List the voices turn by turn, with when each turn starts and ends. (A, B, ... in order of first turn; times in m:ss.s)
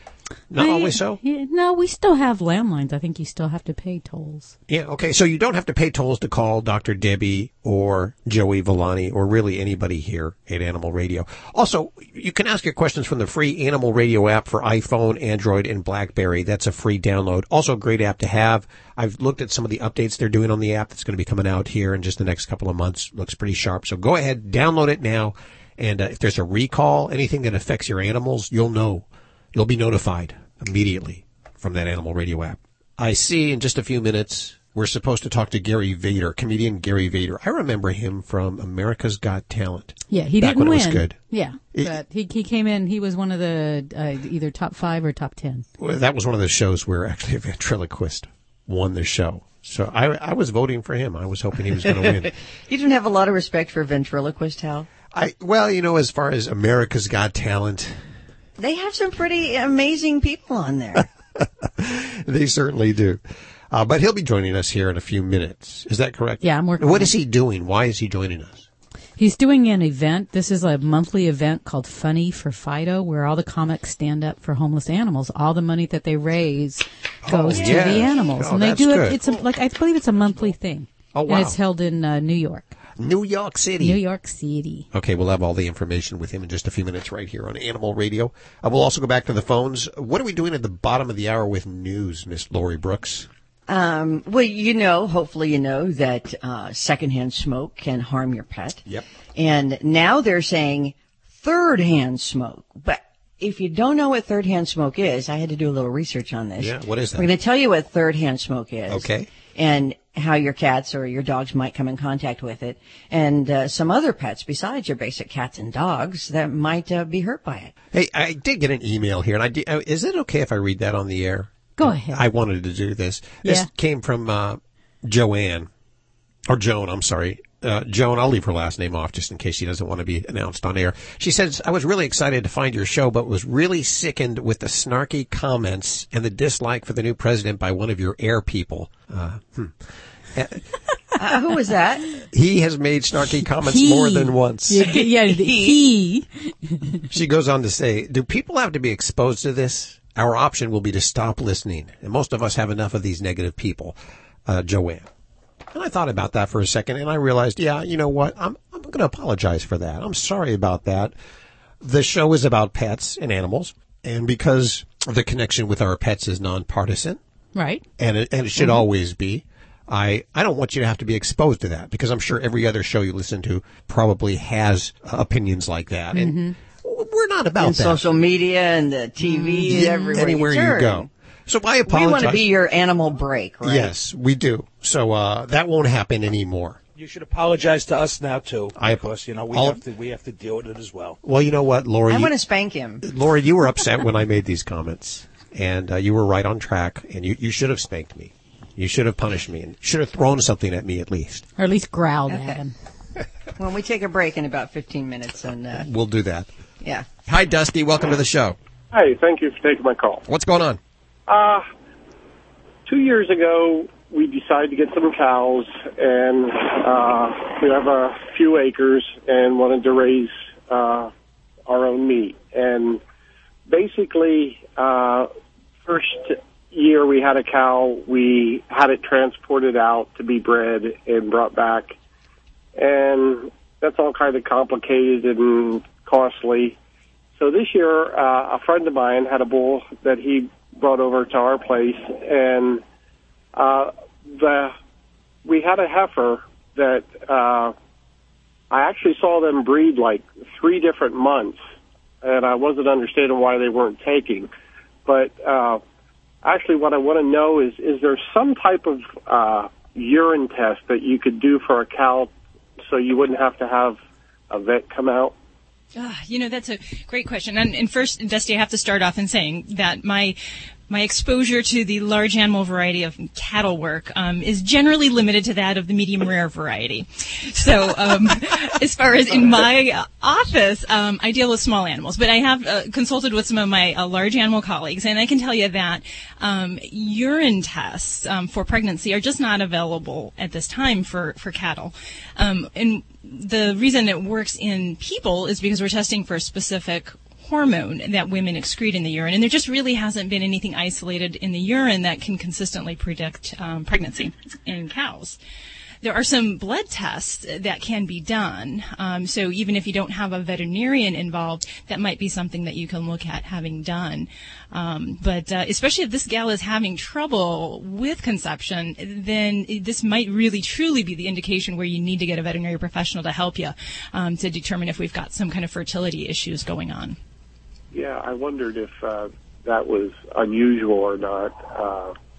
0:00.5-0:01.2 A
0:00.6-0:04.6 B
0:04.7-0:41.2 A
0:40.1-0:45.6 B
0:45.8-0:52.3 A
0:52.0-0:54.9 C
0:55.1-0:58.0 A
0:58.6-1:01.0 C
1:01.0-1:08.7 A
1:06.4-1:07.2 B
1:09.2-1:22.7 B
1:17.2-1:19.2 A
1:21.1-1:21.6 A
1:23.0-1:24.0 A
1:23.8-1:24.9 B
1:24.9-1:33.3 A
1:33.7-1:38.8 C
1:39.4-1:57.7 C
1:46.6-1:47.3 A
1:48.9-1:49.3 A
1:57.9-2:05.7 A
2:01.8-2:02.2 B
2:03.4-2:03.7 B
2:06.5-2:20.6 A
2:21.2-2:22.1 C
2:22.3-2:24.9 A
2:23.6-2:27.0 B
2:24.8-2:25.8 C
2:27.1-2:35.1 A
2:35.7-2:41.2 A
2:41.8-2:47.2 A
2:47.5-2:47.8 B
2:48.0-2:58.0 A
2:56.1-2:56.6 B
2:57.6-3:01.1 C
2:59.2-3:00.1 B
2:59.7-3:02.4 A
3:01.8-3:03.9 C
3:03.6-3:06.8 A
3:07.0-3:11.2 D
3:08.8-3:09.8 A
3:11.2-3:12.3 A
3:12.1-3:13.0 C
3:13.0-3:21.4 A
3:21.6-3:22.7 B
3:22.3-3:22.6 C
3:23.6-3:25.9 C
3:25.8-3:26.5 A
3:27.2-3:28.6 A
3:28.9-3:30.2 E
3:30.2-3:30.8 A
3:31.3-3:31.6 E
3:32.8-3:41.1 E
3:41.7-3:43.0 E
3:43.7-3:45.3 E
3:45.8-3:51.9 E
3:52.8-3:56.8 E
3:57.4-4:02.8 E
4:03.5-4:04.7 E
4:05.4-4:07.7 E
4:08.7-4:11.6 E
4:12.2-4:14.5 E
4:15.0-4:15.8 E
4:16.4-4:22.3 E
4:22.9-4:24.0 E
4:24.5-4:25.3 E
4:26.0-4:30.4 F
4:30.9-5:05.4 F
5:06.0-5:27.2 F
5:27.9-5:32.1 E